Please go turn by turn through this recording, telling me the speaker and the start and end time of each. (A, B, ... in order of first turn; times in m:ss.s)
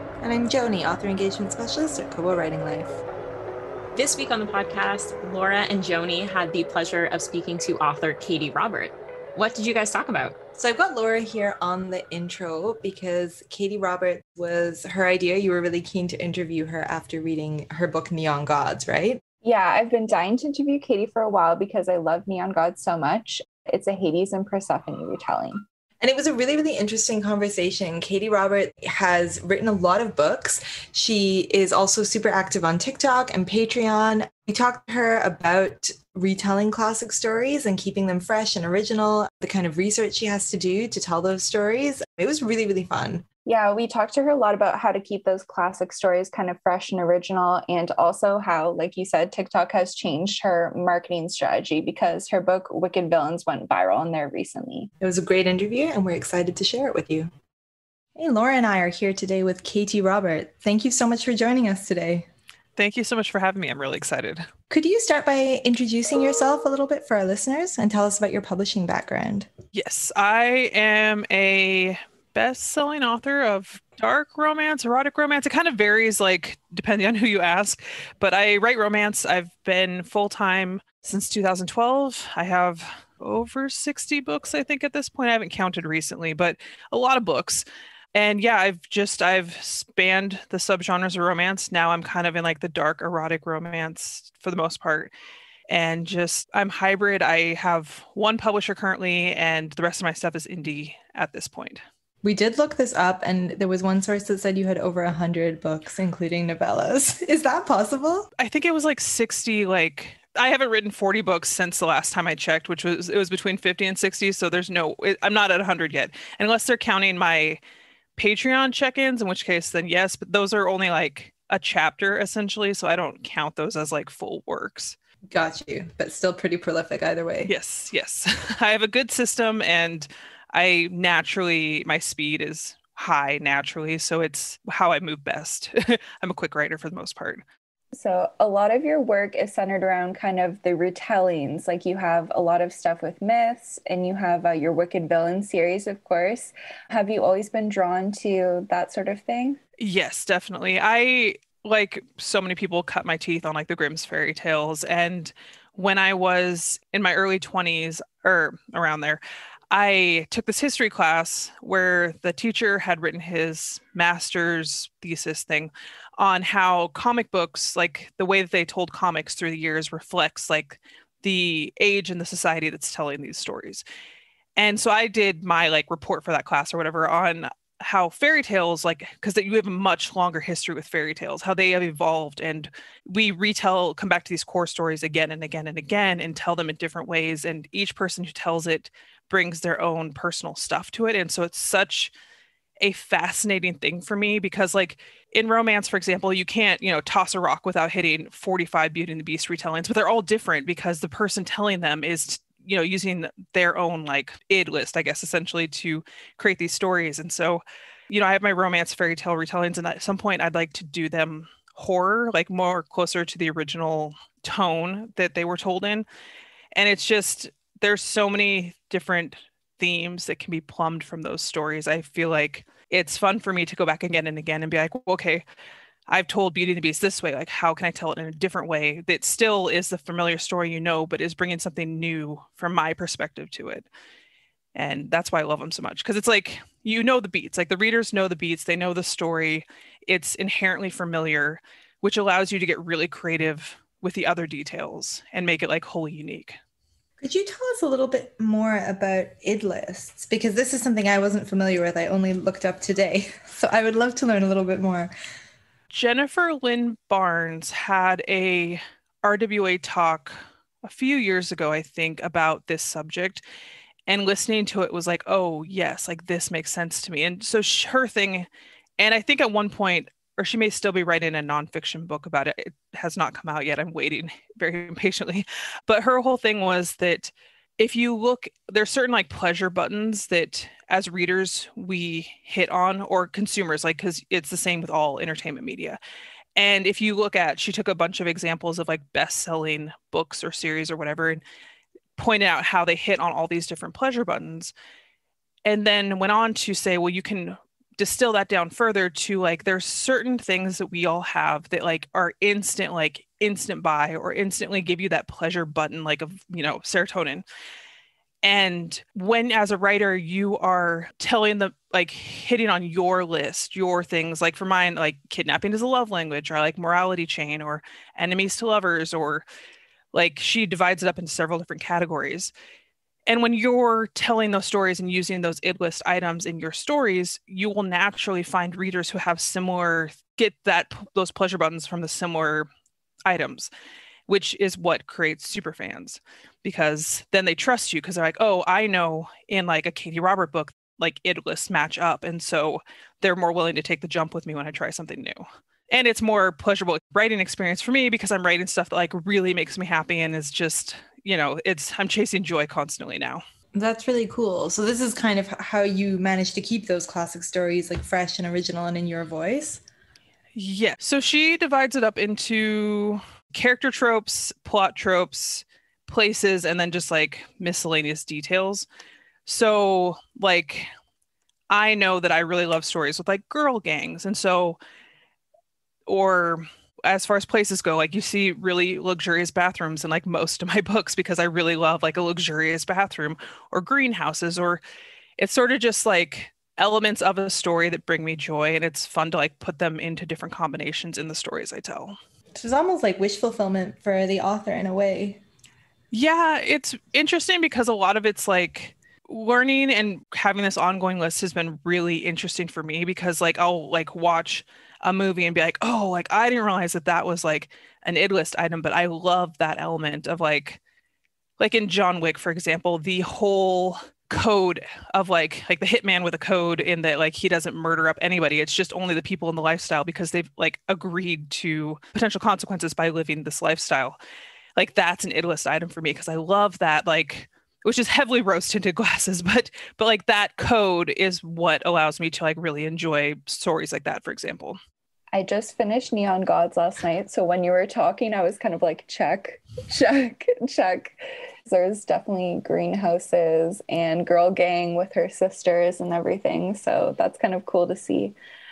0:00.2-0:03.0 A
0:03.9-0:10.4 B
0:10.6-0:19.2 A
0:19.4-0:25.6 C
0:26.0-0:43.2 A
0:43.4-0:54.9 C
0:55.0-0:57.3 A
0:58.2-1:02.3 A
1:02.8-1:04.5 D
1:04.7-1:09.5 A
1:09.7-1:35.1 D
1:35.7-1:41.8 D
1:42.2-1:48.3 A
1:48.4-1:57.6 D
1:58.2-2:05.0 D
2:05.3-2:07.5 A
2:07.5-2:17.4 D
2:17.9-2:29.6 C
2:29.8-2:53.8 D
2:54.6-3:12.1 D
3:12.8-3:36.0 D
3:36.7-3:45.4 D
3:46.1-3:53.9 D
3:54.7-4:06.6 D
4:07.2-4:15.1 A
4:15.9-4:23.4 D
4:24.1-4:28.5 D
4:29.0-4:46.0 D
4:46.6-4:51.4 D
4:52.2-4:54.7 D
4:55.6-5:07.4 D
5:08.4-5:19.4 D
5:20.1-5:22.5 D
5:23.3-5:32.7 D
5:33.2-5:33.7 D
5:34.3-5:53.4 D
5:53.7-5:59.8 A
6:00.5-6:08.8 D
6:09.4-6:10.9 D
6:11.7-6:14.8 D
6:16.1-6:24.8 D
6:25.4-6:32.2 D
6:32.5-6:35.4 A
6:36.1-6:50.8 D
6:51.6-7:04.2 D
7:04.8-7:14.8 D
7:15.3-7:21.1 C
7:21.6-7:28.4 C